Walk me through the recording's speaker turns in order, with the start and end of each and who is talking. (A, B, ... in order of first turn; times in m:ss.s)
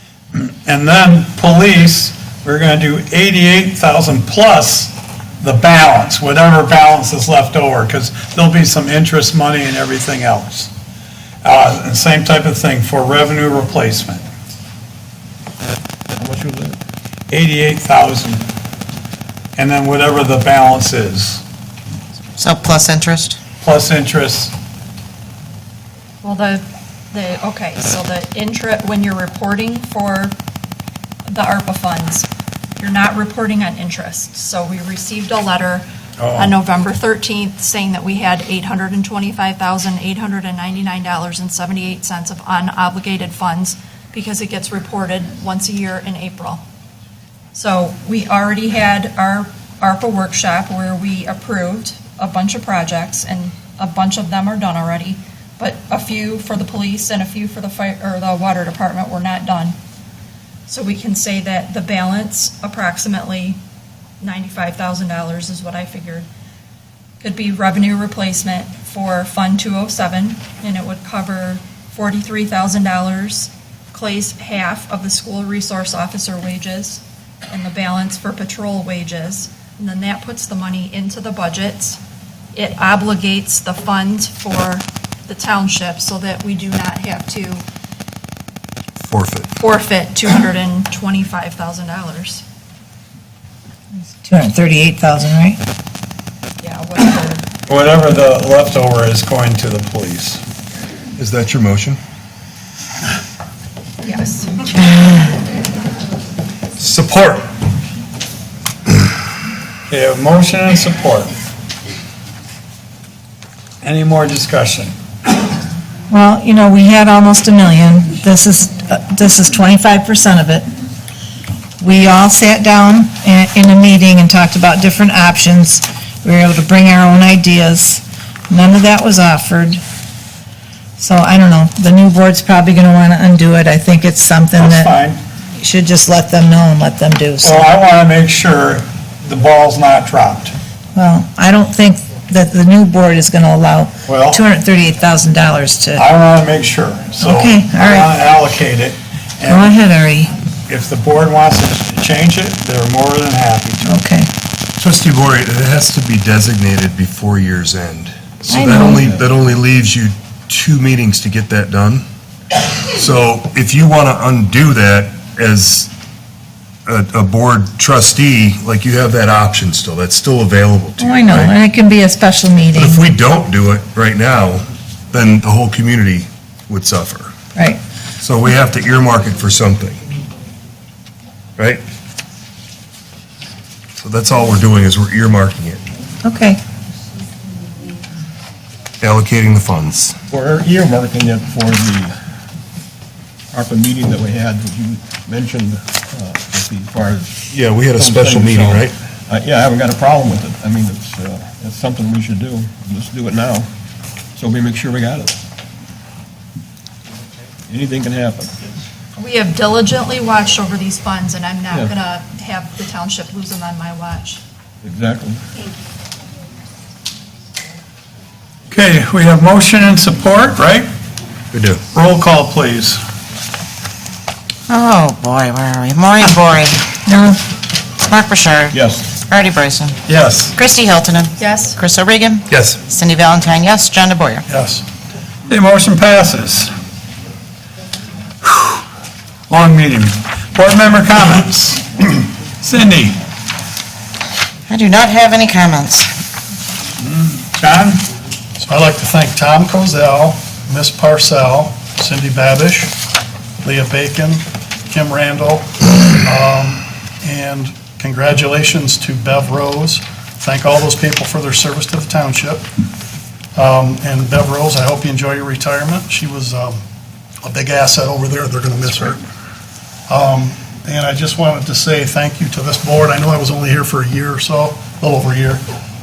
0:00.3-0:10.7 A
0:11.4-0:14.2 A
0:16.1-0:16.8 B
0:17.3-0:18.4 A
0:19.6-0:21.4 A
0:22.4-0:23.4 C
0:23.6-0:24.6 A
0:26.2-0:30.4 D
0:31.3-0:32.3 D
0:32.8-0:46.6 D
0:36.2-0:36.5 A
0:47.5-0:59.8 D
1:00.7-1:03.6 D
1:04.2-1:06.3 D
1:07.2-1:22.0 D
1:22.6-1:27.6 D
1:29.0-1:29.5 E
1:29.6-1:32.4 D
1:34.2-1:35.6 F
1:36.6-1:37.5 D
1:37.7-1:40.4 A
1:41.2-1:42.0 E
1:44.0-1:44.6 D
1:46.8-1:47.4 E
1:49.9-1:51.3 A
1:53.8-1:54.9 A
1:56.1-2:00.7 F
2:01.8-2:09.8 F
2:11.0-2:14.9 F
2:14.6-2:15.2 A
2:15.6-2:17.7 F
2:17.4-2:20.6 A
2:21.0-2:26.0 F
2:24.1-2:24.4 A
2:26.0-2:29.7 A
2:27.2-2:28.1 F
2:29.5-2:30.3 F
2:30.7-2:34.0 A
2:33.8-2:34.3 F
2:34.8-2:42.1 E
2:38.5-2:39.0 F
2:38.9-2:39.2 B
2:42.9-2:45.9 E
2:46.9-2:51.6 E
2:51.0-2:53.0 F
2:52.8-2:57.3 E
2:57.6-2:57.8 F
2:58.2-3:00.0 E
3:01.6-3:01.8 E
3:04.0-3:05.8 E
3:06.2-3:06.6 F
3:09.0-3:10.2 E
3:10.3-3:12.1 B
3:13.5-3:23.7 B
3:17.5-3:19.0 E
3:24.4-3:25.4 B
3:27.7-3:28.5 B
3:29.2-3:34.4 D
3:34.8-3:35.4 B
3:38.7-3:40.9 A
3:41.5-3:41.8 E
3:41.9-3:43.0 A
3:44.7-3:46.8 C
3:47.1-3:47.4 F
3:48.0-3:50.0 C
3:48.7-3:49.1 B
3:50.1-3:50.5 A
3:50.5-3:54.4 C
3:51.4-3:51.8 D
3:52.5-3:52.8 E
3:54.5-3:54.8 G
3:55.5-3:56.7 A
3:58.4-3:58.8 A
3:59.5-4:03.2 A
4:04.7-4:06.1 C
4:07.0-4:08.0 A
4:08.6-4:12.9 G
4:13.6-4:22.6 G
4:23.6-4:26.8 G
4:27.4-4:29.2 G
4:30.1-4:35.6 G